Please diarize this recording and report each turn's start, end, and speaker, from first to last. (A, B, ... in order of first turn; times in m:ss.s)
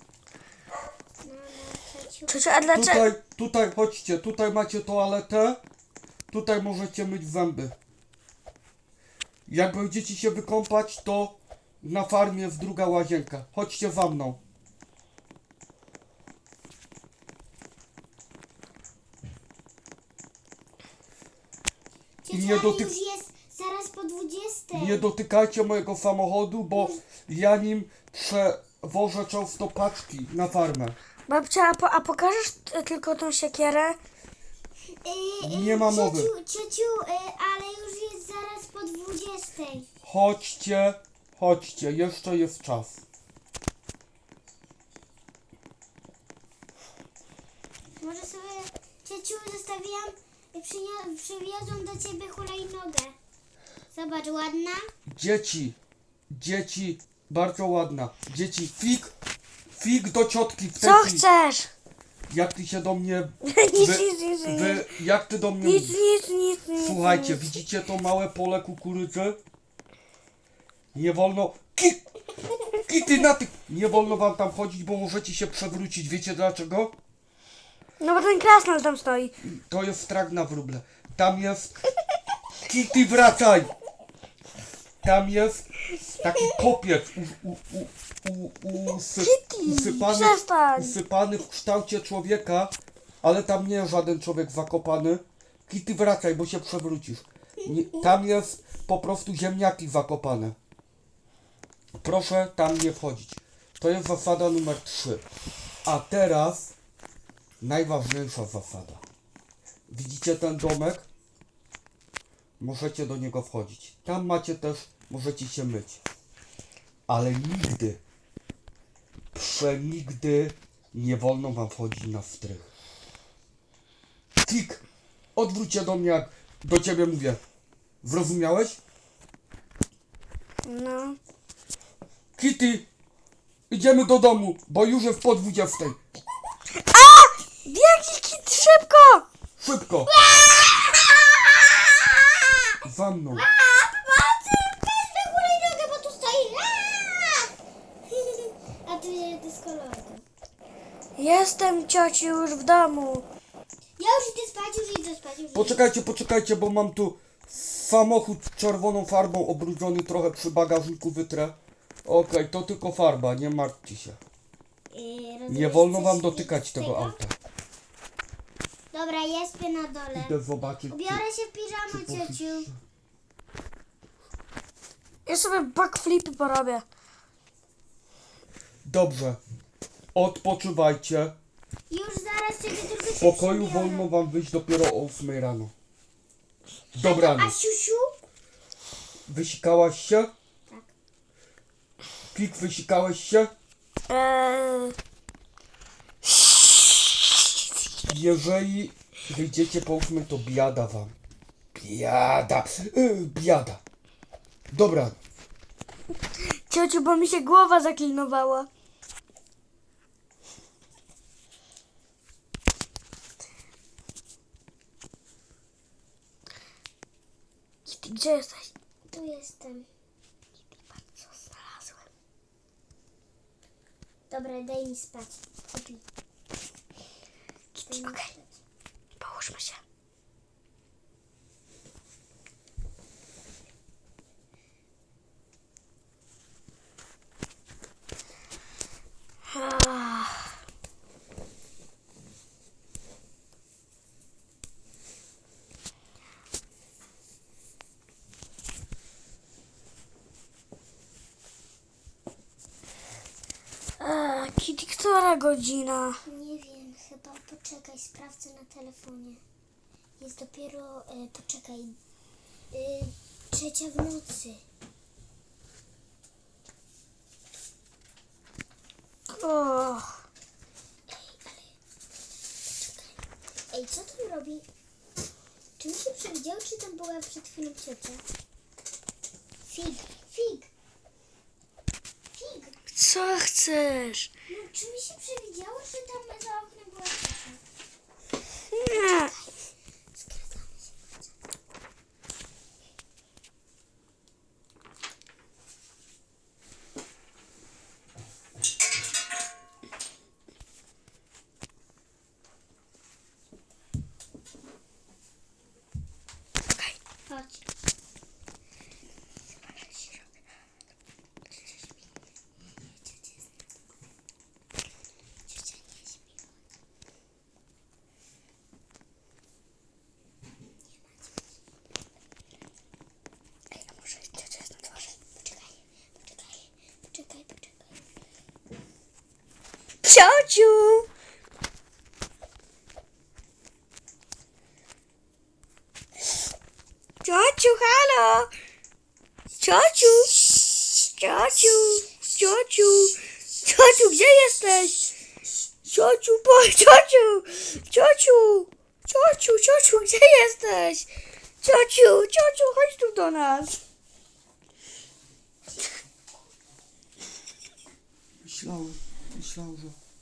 0:01.2-0:02.5 A
0:02.3-0:03.1 B
0:02.7-0:05.6 C
0:06.3-0:07.8 C
0:09.5-0:14.4 C
0:22.2-0:25.1 A
0:22.3-0:22.9 C
0:24.7-0:31.0 C
0:31.3-0:34.0 B
0:35.0-0:39.9 A
0:35.4-0:36.3 C
0:40.0-0:43.0 C
0:48.0-0:53.2 A
0:53.9-0:54.9 A
0:55.1-0:55.8 C
0:56.3-0:59.1 C
0:59.8-1:01.2 C
1:00.8-1:01.7 B
1:02.3-1:06.0 C
1:03.4-1:04.9 B
1:05.6-1:07.6 B
1:06.8-1:09.4 C
1:10.9-1:12.0 C
1:12.8-1:17.0 C
1:18.0-1:19.3 B
1:19.4-1:21.7 C
1:22.7-1:23.7 C
1:25.0-1:25.6 C
1:26.2-1:40.6 C
1:29.2-1:31.0 B
1:42.0-1:45.2 C
1:45.8-1:46.7 C
1:47.6-1:49.0 C
1:49.9-1:51.1 C
1:52.6-1:56.0 C
1:57.1-1:58.0 C
1:59.3-2:02.7 C
2:04.4-2:04.8 C
2:05.4-2:07.4 C
2:08.0-2:08.8 C
2:10.6-2:11.2 B
2:12.4-2:12.9 C
2:13.7-2:16.0 C
2:16.8-2:19.3 B
2:19.6-2:20.1 C
2:20.1-2:27.5 A
2:22.8-2:23.4 C
2:28.1-2:30.2 A
2:31.2-2:33.3 B
2:34.0-2:35.9 A
2:35.5-2:44.2 C
2:44.9-2:47.2 A
2:45.5-2:47.3 C
2:48.9-2:50.4 A
2:50.1-2:51.2 C
2:50.9-2:52.7 A
2:51.9-2:52.8 C
2:55.3-2:56.8 B
2:58.8-2:59.4 C
3:00.2-3:01.4 C
3:01.9-3:04.1 A
3:03.2-3:05.7 C
3:07.0-3:07.6 C
3:07.0-3:08.2 A
3:09.3-3:10.3 C
3:12.3-3:13.5 C
3:14.1-3:15.0 B
3:16.2-3:17.5 B
3:18.0-3:21.2 C
3:21.8-3:23.8 C
3:24.7-3:25.2 C
3:26.7-3:28.7 B
3:37.9-3:38.7 B
3:39.1-3:39.9 A
3:40.7-3:42.0 B
3:44.3-3:46.0 A
3:47.7-3:48.3 B
3:47.9-3:48.6 A
3:49.2-3:49.8 B
3:59.5-4:00.5 B
4:14.0-4:16.2 B
4:16.3-4:19.4 A
4:20.2-4:22.0 A
4:22.7-4:24.6 A
4:29.3-4:30.2 B
4:31.1-4:31.8 A
4:33.7-4:34.6 A
4:35.8-4:38.2 A
4:39.7-4:40.7 A
4:42.3-4:42.8 A
4:43.0-4:44.3 B
4:44.5-4:47.6 A
4:48.7-4:49.3 B
4:49.0-4:49.6 A
4:50.1-4:51.1 A
5:06.7-5:07.0 B
5:07.3-5:07.6 A
5:13.1-5:13.4 A
5:15.5-5:16.4 A
5:21.0-5:21.3 A
5:23.7-5:25.1 B
5:25.3-5:28.0 A
5:30.0-5:31.1 B
5:37.2-5:38.5 B
5:39.6-5:40.4 B
5:41.1-5:45.1 B
5:45.9-5:51.1 B
5:51.6-5:53.8 B
5:58.4-6:00.0 C